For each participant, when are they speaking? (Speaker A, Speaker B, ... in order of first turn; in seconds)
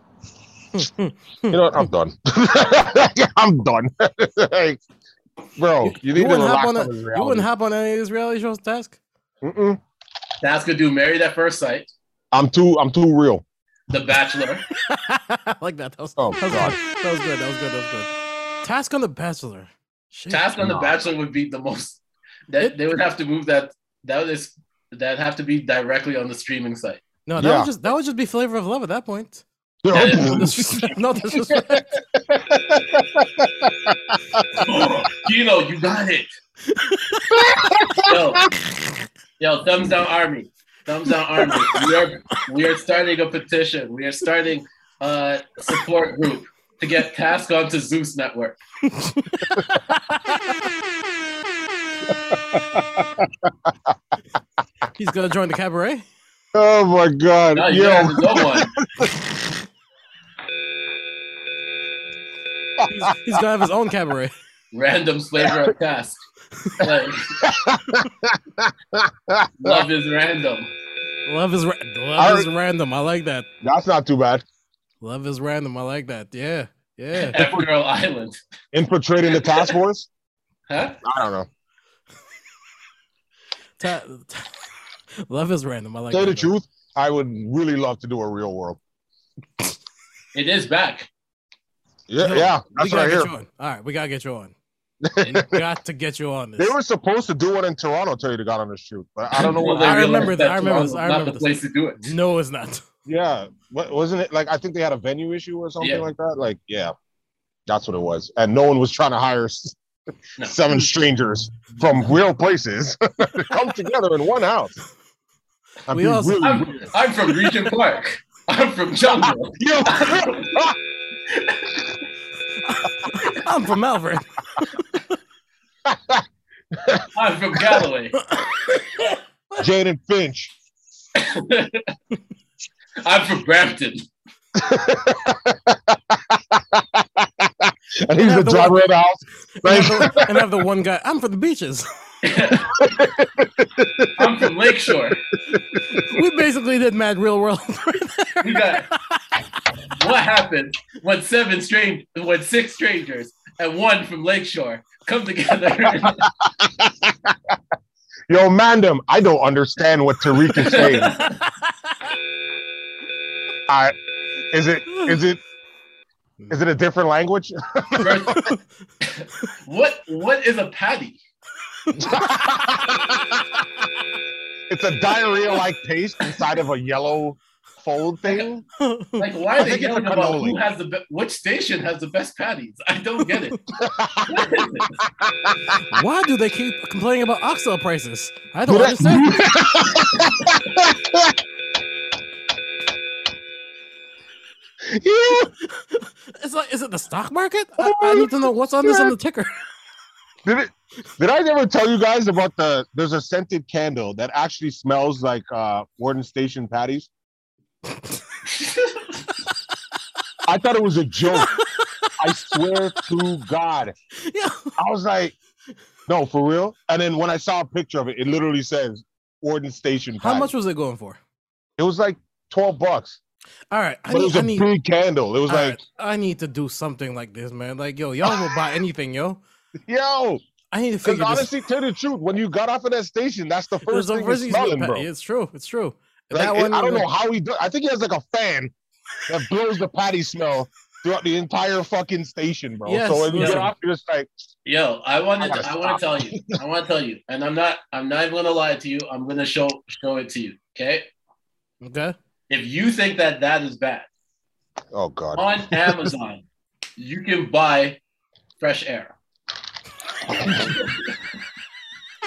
Speaker A: 0.7-1.8, 5.8-9.0, 14.8-18.1, 18.6-20.5, 27.2-29.4, 30.0-32.0, 36.7-37.8, 41.5-41.8, 48.9-50.5, 55.0-56.0, 62.9-64.3, 71.3-73.5, 75.0-77.4, 83.8-84.5, 85.2-86.5, 92.2-94.5, 95.2-96.7, 99.7-102.8, 115.9-116.5, 122.7-125.0, 128.3-129.6, 138.2-138.9, 139.6-141.9, 146.0-149.2, 171.9-172.4, 178.8-179.2, 185.9-189.5, 195.6-199.5, 211.3-212.6, 214.2-214.7, 220.2-221.2, 223.7-224.7, 225.5-229.4, 230.7-231.5, 233.9-237.1, 242.8-243.7, 251.8-252.1
Speaker B: 1.5-4.8, 5.6-7.5, 9.4-9.8, 12.3-13.4, 16.2-16.8, 20.6-20.9, 27.4-27.7, 29.8-34.6, 37.3-38.1, 52.1-53.9, 56.5-59.3, 62.8-63.4, 65.4-65.7, 67.4-69.8, 72.2-72.5, 73.6-74.4, 77.3-77.7, 78.7-80.1, 81.0-81.5, 86.1-88.8, 92.1-93.3, 95.0-95.6, 96.6-100.3, 103.0-106.9, 107.7-109.8, 110.4-114.8, 115.9-116.9, 119.2-120.7, 125.8-127.1, 129.6-130.5, 134.6-140.4, 142.7-144.5, 145.5-146.2, 156.0-157.6, 158.3-161.2, 163.7-163.9, 164.5-165.4, 166.5-168.5, 172.0-173.4, 174.7-178.6, 179.6-180.6, 183.8-184.5, 185.1-185.8, 188.7-191.4, 194.8-195.5, 197.8-199.1, 200.4-207.1, 210.5-211.6, 212.2-213.9, 214.8-215.3, 216.1-220.5, 221.8-223.2, 224.1-225.8, 228.2-228.6, 229.9-230.4, 231.0-235.1, 236.3-238.7, 239.3-244.3, 245.4-246.6, 254.9-256.1
Speaker C: 10.4-11.9, 13.9-14.6, 20.3-27.0, 29.9-30.4, 34.5-36.3, 38.0-38.5, 39.4-48.6, 57.5-58.7, 64.7-66.2, 66.8-67.3, 69.6-70.7, 77.2-78.4, 79.3-79.7, 80.7-81.0, 90.3-91.1, 99.3-102.1, 105.8-106.0, 116.4-120.6, 121.3-121.8, 127.1-128.1, 131.2-131.9, 133.0-134.0, 142.2-142.9, 144.2-145.2, 148.4-148.9, 149.9-156.2, 160.6-161.3, 168.0-168.5, 169.0-171.2, 179.2-183.6, 184.3-185.0, 208.6-209.0, 243.3-243.7, 244.6-251.1, 252.5-254.1, 255.3-256.4, 257.0-258.0, 258.6-259.1